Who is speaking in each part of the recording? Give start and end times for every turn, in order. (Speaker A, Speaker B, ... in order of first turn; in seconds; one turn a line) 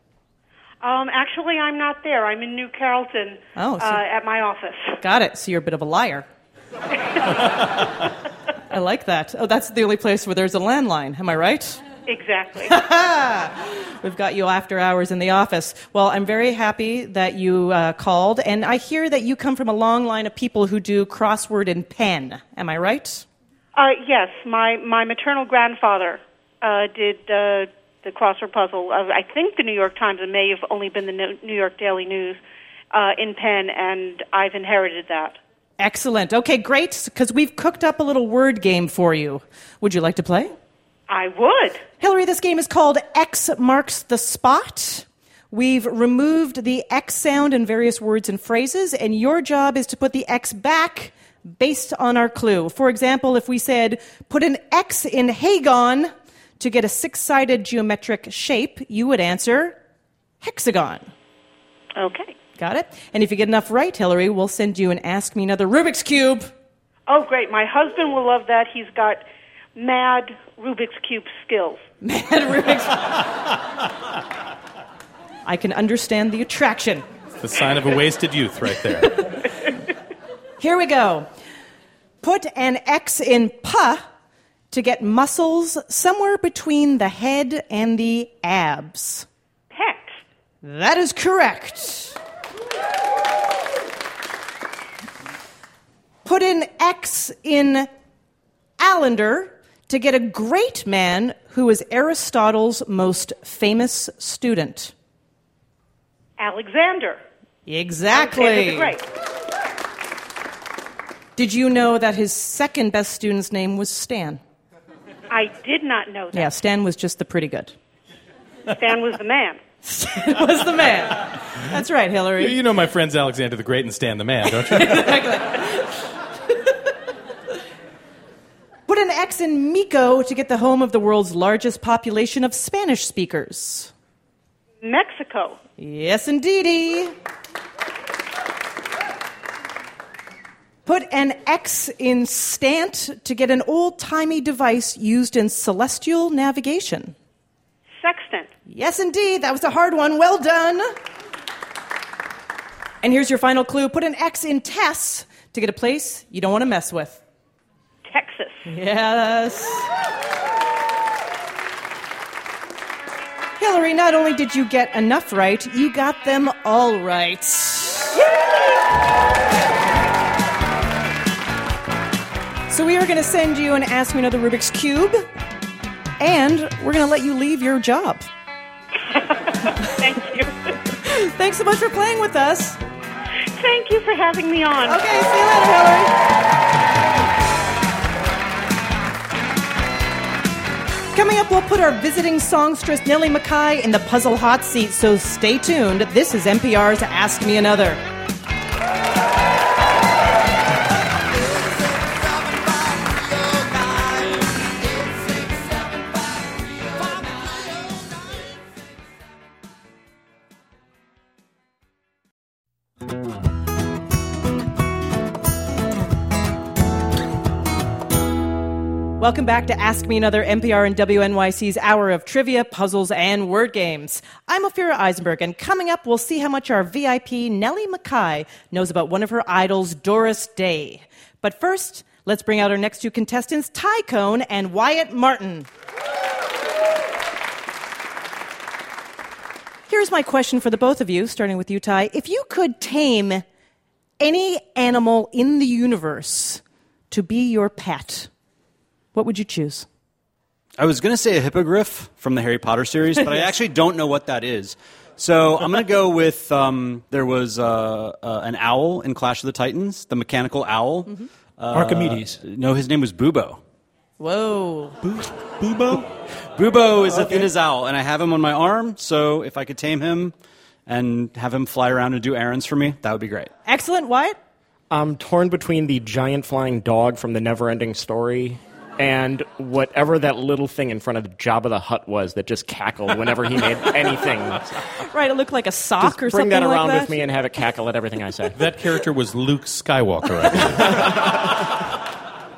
Speaker A: 0.8-5.0
Speaker B: 3.6-4.0
Speaker B: 5.0-6.3
Speaker B: 8.7-11.8
Speaker A: 12.1-12.8
Speaker B: 12.6-23.2
Speaker A: 23.8-32.4
Speaker A: 32.9-35.4
Speaker B: 35.8-40.5
Speaker A: 41.1-41.8
Speaker B: 42.0-59.8
Speaker B: 60.4-61.1
Speaker A: 62.0-62.3
Speaker B: 62.6-66.5
Speaker A: 67.1-69.2
Speaker A: 69.8-71.8
Speaker B: 72.0-73.2
Speaker B: 75.5-77.0
Speaker C: 77.4-79.3
Speaker B: 80.6-81.3
Speaker B: 82.2-84.0
Speaker B: 84.7-89.3
Speaker A: 89.7-90.2
Speaker B: 90.6-92.2
Speaker B: 96.2-97.9
Speaker B: 98.8-104.9
Speaker A: 106.4-107.2
Speaker B: 107.7-109.0
Speaker A: 108.1-109.0
Speaker B: 111.4-114.4
Speaker A: 115.3-116.5
Speaker B: 116.3-117.7
Speaker A: 118.7-119.6
Speaker B: 119.8-122.6
Speaker C: 122.4-125.2
Speaker B: 124.7-125.7
Speaker B: 128.9-133.9
Speaker A: 134.8-135.6
Speaker B: 135.8-137.1
Speaker B: 140.9-147.2
Speaker A: 148.0-148.5
Speaker B: 148.7-150.9
Speaker B: 153.0-157.2
Speaker A: 158.1-158.7
Speaker B: 158.7-159.9
Speaker B: 163.6-168.2
Speaker A: 168.2-168.5
Speaker B: 172.7-175.2
Speaker B: 176.2-178.3
Speaker A: 179.3-180.7
Speaker B: 181.1-182.8
Speaker A: 183.6-185.1
Speaker B: 184.9-186.1
Speaker B: 191.1-198.0
Speaker B: 219.2-235.7
Speaker B: 239.9-243.4
Speaker B: 244.2-248.3
Speaker B: 249.2-249.9
Speaker D: 250.8-263.6
Speaker B: 253.2-253.5
Speaker E: 261.7-262.4
Speaker B: 264.2-265.0
Speaker E: 265.0-266.1
Speaker D: 266.6-270.4
Speaker E: 267.0-267.5
Speaker D: 270.9-273.5
Speaker B: 273.7-274.4
Speaker F: 274.9-284.9
Speaker B: 285.1-287.2
Speaker F: 286.0-288.6
Speaker C: 288.5-291.2